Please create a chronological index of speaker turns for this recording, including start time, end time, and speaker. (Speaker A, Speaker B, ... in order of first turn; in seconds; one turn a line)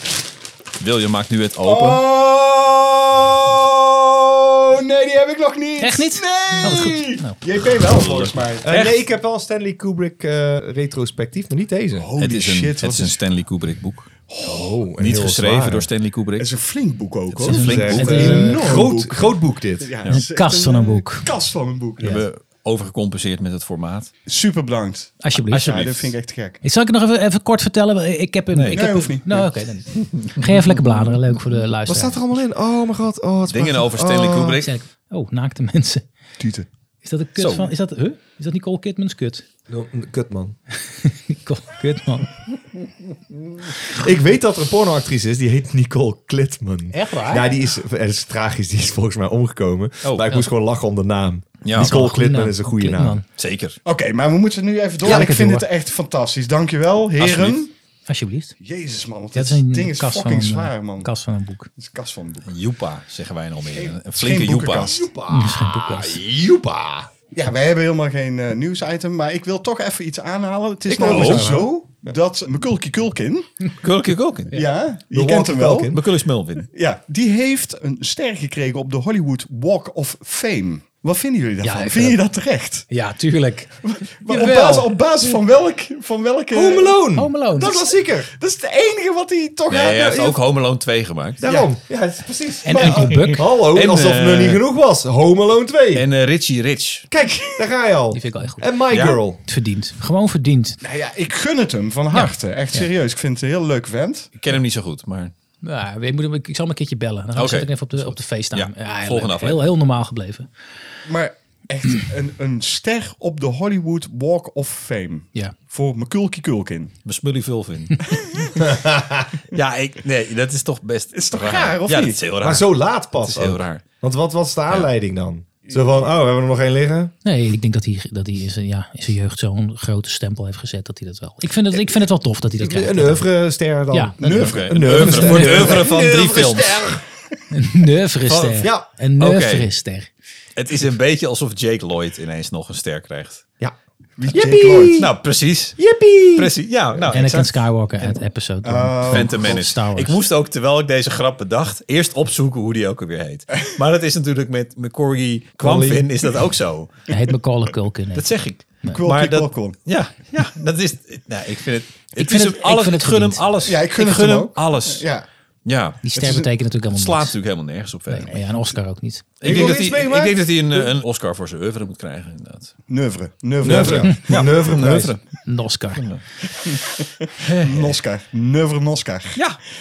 Speaker A: 0.8-2.0
Speaker B: 1.6-7.2
Speaker C: 5.8-7.4
Speaker D: 7.4-12.1
Speaker A: 7.7-9.0
Speaker B: 12.0-13.2
Speaker A: 12.2-16.5
Speaker B: 14.3-14.8
Speaker D: 14.5-15.9
Speaker B: 16.4-22.2
Speaker A: 17.3-18.3
Speaker C: 17.4-18.7
Speaker D: 17.7-20.0
Speaker C: 20.1-21.3
Speaker A: 22.0-24.1
Speaker B: 24.3-26.6
Speaker C: 25.2-25.8
Speaker A: 25.5-26.1
Speaker C: 26.6-32.2
Speaker A: 28.5-28.9
Speaker B: 28.7-29.4
Speaker A: 30.2-30.8
Speaker D: 31.9-34.6
Speaker A: 33.5-34.7
Speaker C: 34.6-36.0
Speaker B: 36.4-36.7
Speaker C: 37.0-39.5
Speaker A: 37.4-37.7
Speaker D: 39.7-40.6
Speaker C: 40.8-42.3
Speaker D: 43.8-53.2
Speaker C: 46.9-47.5
Speaker A: 50.0-50.5
Speaker A: 51.6-52.0
Speaker C: 51.8-53.2
Speaker A: 53.4-53.8
Speaker B: 53.9-57.7
Speaker C: 55.0-55.7
Speaker A: 57.2-57.6
Speaker C: 58.1-58.5
Speaker B: 58.6-61.1
Speaker C: 59.4-61.7
Speaker B: 61.8-62.5
Speaker A: 62.5-65.0
Speaker B: 63.7-65.1
Speaker D: 64.9-67.1
Speaker C: 65.3-66.2
Speaker A: 66.0-66.5
Speaker B: 67.3-73.7
Speaker D: 70.9-71.6
Speaker A: 71.0-71.6
Speaker A: 73.8-74.7
Speaker B: 74.5-75.9
Speaker D: 75.1-76.0
Speaker A: 75.9-76.7
Speaker B: 76.6-82.9
Speaker C: 81.6-82.2
Speaker C: 82.9-84.9
Speaker B: 83.8-87.0
Speaker D: 86.5-88.3
Speaker C: 87.2-87.8
Speaker B: 87.6-90.4
Speaker A: 89.7-91.5
Speaker D: 91.4-96.1
Speaker C: 92.6-93.5
Speaker A: 93.2-94.6
Speaker A: 95.9-97.1
Speaker D: 97.1-99.4
Speaker C: 98.1-98.6
Speaker A: 98.9-99.2
Speaker C: 99.4-100.8
Speaker B: 100.8-104.3
Speaker C: 102.1-102.9
Speaker A: 104.4-105.3
Speaker C: 105.6-110.5
Speaker A: 107.4-109.7
Speaker B: 111.1-116.9
Speaker A: 117.0-118.0
Speaker B: 118.2-118.5
Speaker D: 118.6-119.3
Speaker A: 119.5-123.8
Speaker B: 121.1-122.2
Speaker D: 122.4-127.1
Speaker C: 127.2-133.3
Speaker D: 131.7-132.0
Speaker D: 132.6-137.0
Speaker C: 133.9-134.2
Speaker B: 134.2-135.8
Speaker A: 134.3-136.9
Speaker C: 135.2-135.5
Speaker C: 137.5-140.1
Speaker A: 138.3-139.7
Speaker A: 140.6-143.4
Speaker B: 144.2-145.0
Speaker D: 144.3-145.2
Speaker A: 145.0-145.8
Speaker D: 145.8-146.5
Speaker A: 146.3-147.6
Speaker C: 147.1-150.2
Speaker B: 148.6-149.7
Speaker A: 149.1-156.9
Speaker D: 155.6-156.2
Speaker C: 157.1-158.3
Speaker A: 158.2-165.1
Speaker B: 158.9-159.8
Speaker C: 162.2-163.5
Speaker B: 163.7-165.3
Speaker A: 165.7-166.0
Speaker C: 166.0-167.4
Speaker B: 166.2-166.5
Speaker A: 166.9-168.4
Speaker C: 168.1-169.3
Speaker A: 169.4-172.7
Speaker D: 169.4-170.9
Speaker B: 172.9-174.2
Speaker D: 173.6-175.2
Speaker A: 173.6-175.2
Speaker C: 175.4-176.0
Speaker A: 175.9-176.2
Speaker B: 176.7-177.0
Speaker A: 177.4-177.9
Speaker B: 177.6-179.4